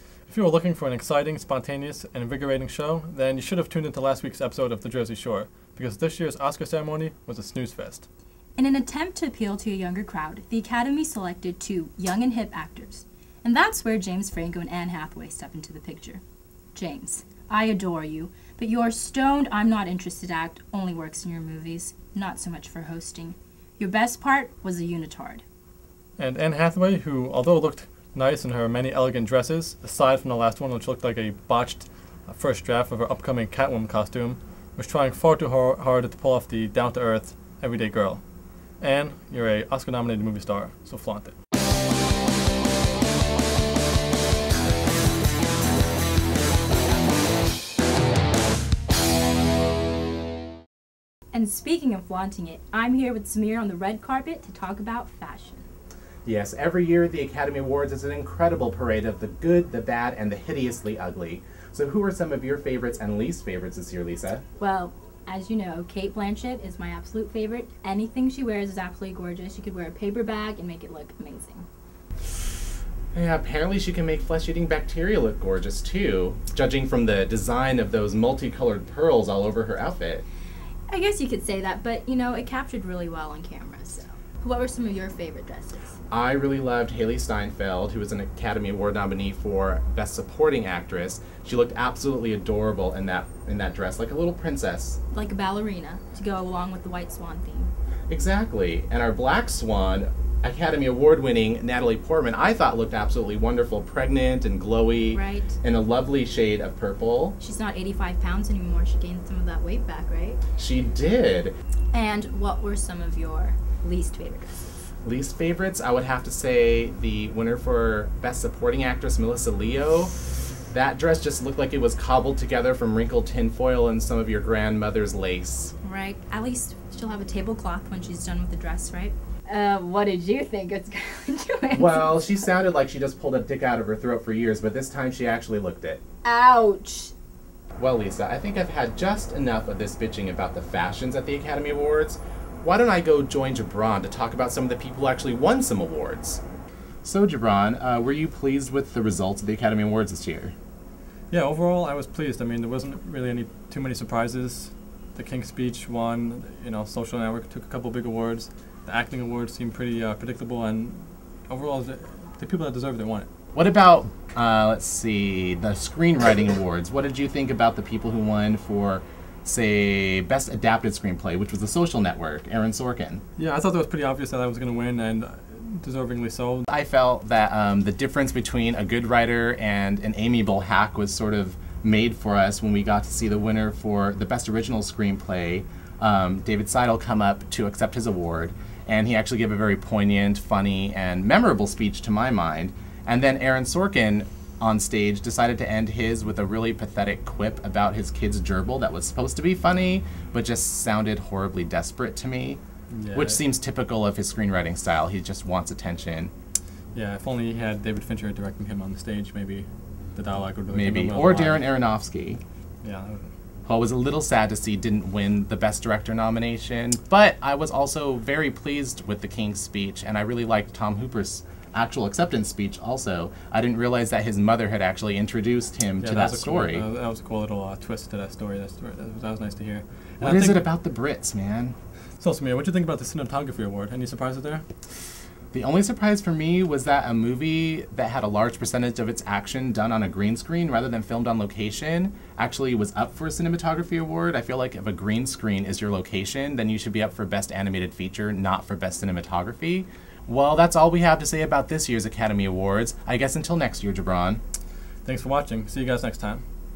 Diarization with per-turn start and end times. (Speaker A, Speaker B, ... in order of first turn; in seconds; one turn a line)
Speaker A: 0.3-8.1
Speaker B: 8.6-16.2
Speaker B: 16.7-25.4
Speaker A: 26.2-38.2
Speaker A: 38.8-41.3
Speaker B: 51.3-55.7
Speaker C: 56.2-64.4
Speaker B: 64.6-71.7
Speaker C: 73.1-80.2
Speaker B: 80.9-86.0
Speaker C: 86.1-95.0
Speaker B: 95.1-97.7
Speaker C: 98.1-107.4
Speaker B: 105.1-105.6
Speaker B: 107.4-110.4
Speaker C: 110.6-111.5
Speaker B: 111.9-114.6
Speaker C: 115.0-120.1
Speaker C: 120.7-125.7
Speaker B: 125.8-132.4
Speaker C: 131.7-136.0
Speaker B: 136.2-137.1
Speaker C: 137.8-146.4
Speaker C: 147.0-150.5
Speaker A: 151.3-163.3
Speaker C: 163.5-173.2
Speaker A: 173.4-176.7
Speaker C: 176.7-202.6
Speaker A: 202.9-203.4
Speaker C: 203.1-206.3
Speaker A: 206.9-211.7
Speaker C: 210.7-212.4
Speaker A: 212.8-213.3
Speaker C: 213.7-226.9
Speaker A: 226.0-230.7
Speaker C: 230.2-231.8
Speaker A: 232.2-234.6
Speaker C: 235.5-254.4
Speaker A: 255.1-256.4